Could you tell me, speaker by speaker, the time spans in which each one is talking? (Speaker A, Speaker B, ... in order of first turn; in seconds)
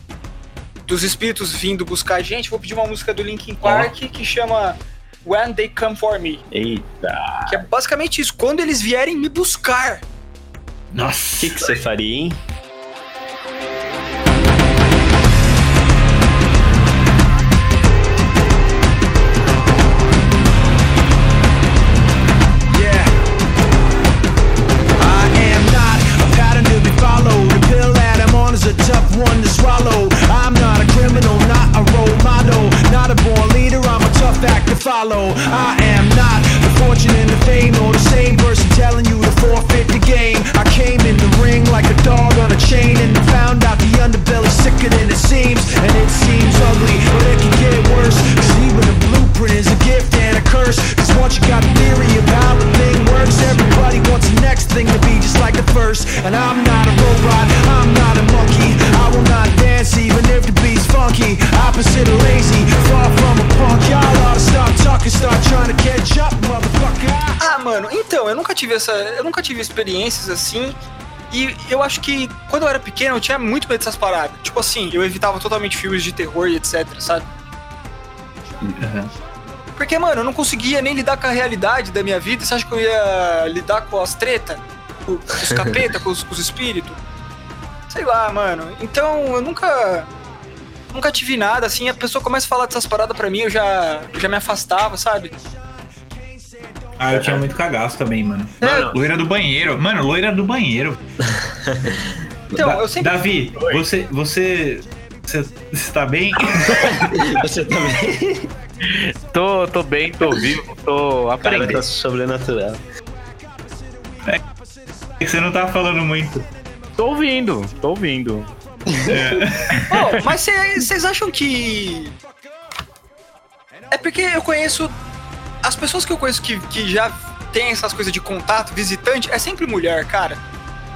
Speaker A: 0.9-6.4, 7.5-10.0, 67.4-70.8, 71.3-77.3, 79.8-87.0, 87.9-90.1, 90.9-95.3, 98.6-98.9, 102.5-103.3, 119.9-122.2, 123.9-124.9, 125.6-130.4
Speaker B: 3.6-3.9, 6.5-7.6, 11.4-12.4, 85.4-85.8, 97.2-97.5, 98.6-99.0, 101.3-102.2, 106.7-108.5, 111.4-112.8, 118.9-119.2
Speaker C: 10.9-11.8, 78.8-79.1, 97.0-101.0, 102.6-107.1, 115.2-116.5, 119.1-120.1
Speaker D: 22.7-23.2, 25.0-67.4
Speaker E: 103.6-103.8, 108.8-111.8, 117.0-118.5